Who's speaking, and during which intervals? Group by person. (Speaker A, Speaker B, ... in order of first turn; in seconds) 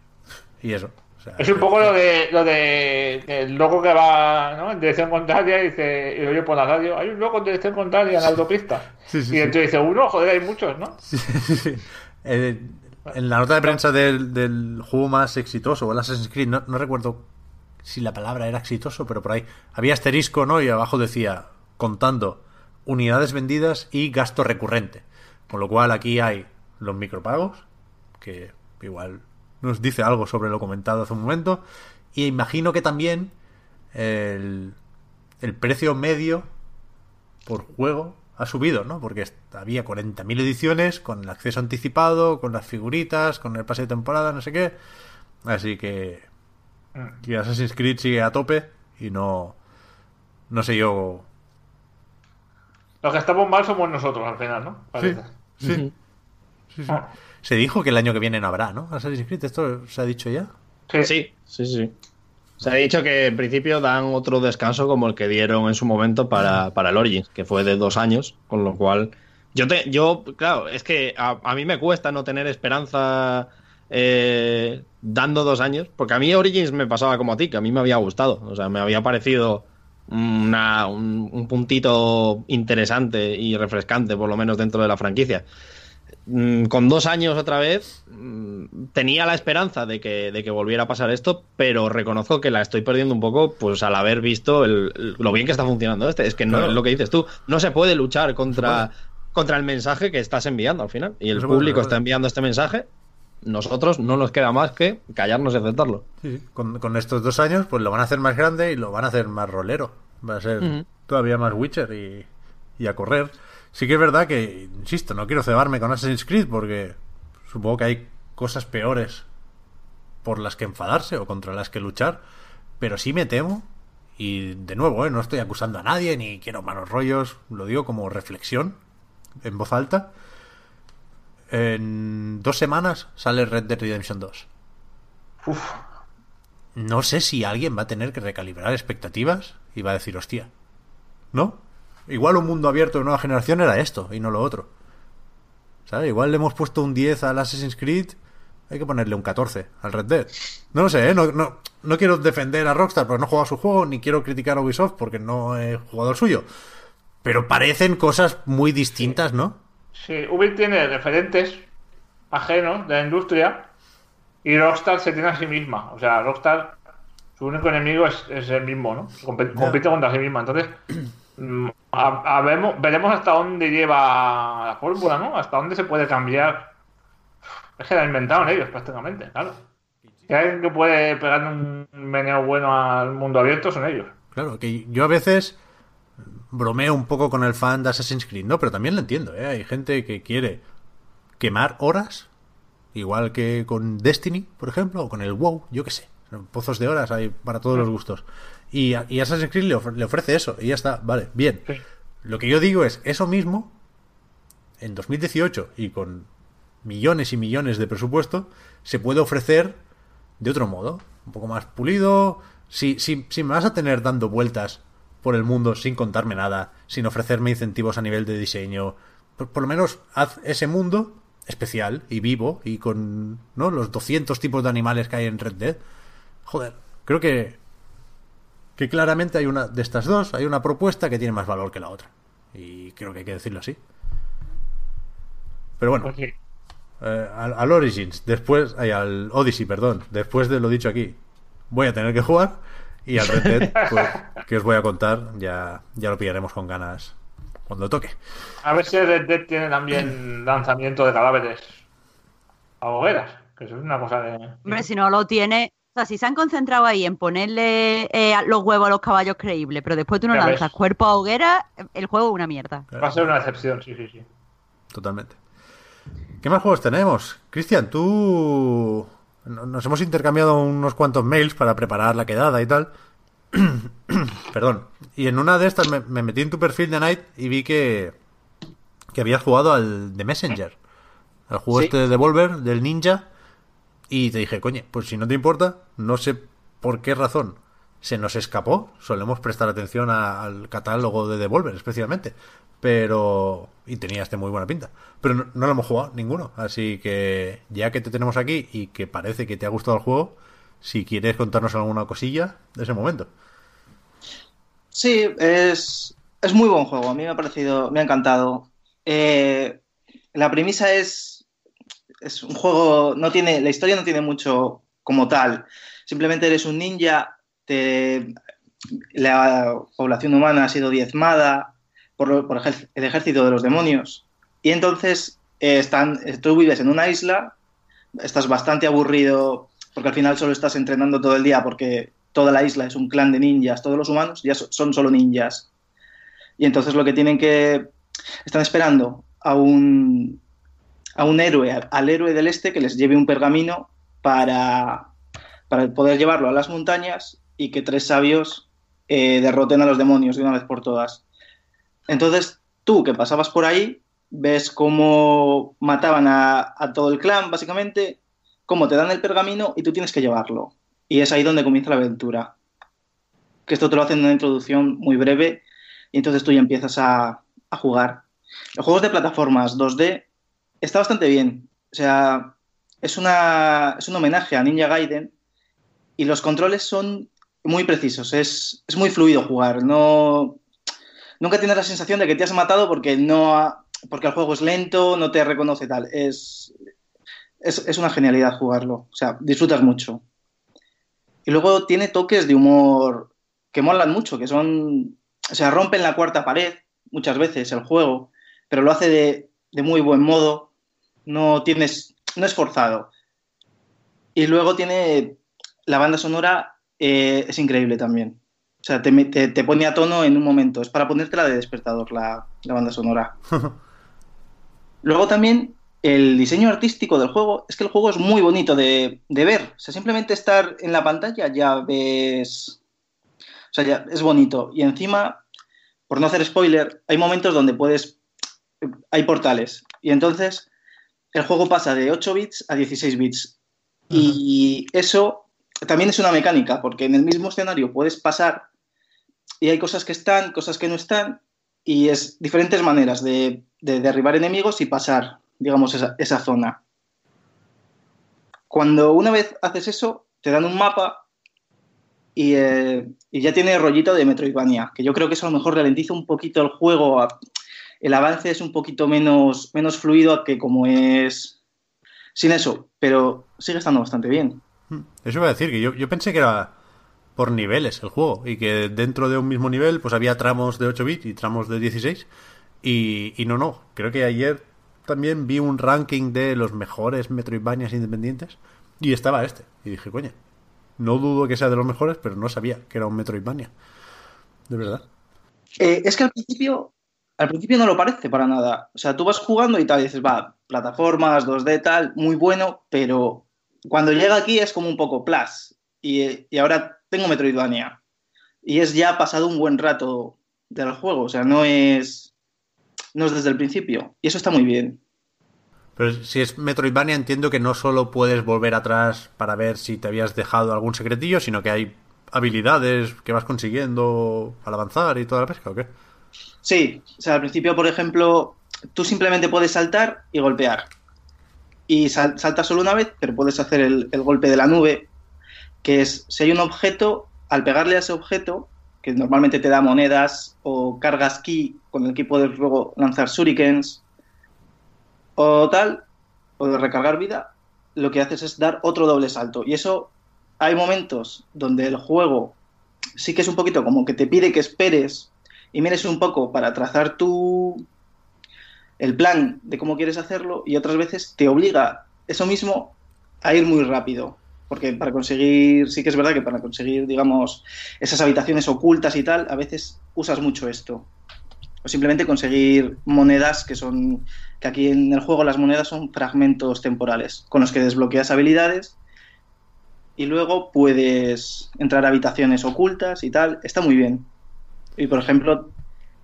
Speaker A: 0.6-1.9, 9.1-9.6, 11.0-17.3, 17.8-27.7, 28.2-33.3, 33.9-34.8, 35.4-36.5, 37.5-44.8, 45.5-46.3, 47.2-49.6, 50.5-51.3, 55.0-55.9, 56.7-60.5, 96.5-96.8, 98.5-98.9, 101.3-102.0, 106.2-119.3, 120.2-122.2, 122.8-128.8, 129.4-130.1, 131.5-134.5, 136.8-140.5, 141.3-144.7, 145.9-148.2, 148.7-156.5, 157.2-159.6, 184.3-185.6, 186.5-190.6, 191.4-192.3, 192.9-201.7, 202.2-203.8, 204.8-206.3, 206.8-209.8, 210.4-225.8, 226.5-227.6, 228.8-233.8, 235.8-236.2, 237.0-241.2, 241.7-247.2, 247.7-248.2, 262.9-263.3, 264.9-265.4, 266.4-272.9, 273.5-278.1, 279.1-280.8, 281.5-283.3, 284.1-303.3, 464.9-466.7, 467.4-472.3, 472.8-480.4, 481.0-483.7, 484.7-485.1, 506.0-515.9
Speaker B: 1.4-11.0, 53.0-55.3, 135.4-135.8, 159.9-161.7, 162.3-163.7, 164.4-166.8, 167.4-170.8, 171.4-176.7, 177.8-179.6, 180.3-184.1, 236.0-236.3, 243.4-244.2, 248.6-251.8, 252.8-254.8, 260.3-260.7, 263.0-264.3
Speaker C: 61.0-61.9, 62.6-85.5, 86.3-102.9, 103.4-106.0, 110.6-110.9
Speaker D: 254.7-262.9
Speaker E: 304.9-309.8, 310.4-311.4, 312.2-318.3, 319.1-327.6, 328.2-335.7, 336.6-337.9, 338.5-340.4, 341.2-345.1, 345.7-351.2, 352.1-362.5, 363.7-368.2, 368.8-370.2, 370.8-375.3, 376.2-380.6, 381.4-386.7, 387.6-390.2, 391.5-400.7, 401.3-403.1, 404.4-413.4, 415.0-422.8, 423.7-425.4, 426.1-428.2, 428.9-430.7, 431.3-433.5, 434.1-438.7, 439.6-446.8, 448.7-451.2, 452.4-457.3, 458.0-461.6, 462.4-464.6, 485.8-498.0, 498.6-502.3, 503.1-505.0, 516.6-520.9, 521.9-525.1, 525.8-534.0, 535.4-536.0, 536.6-542.6, 543.2-547.9, 549.0-561.1, 561.8-569.0, 570.2-574.3, 575.0-575.7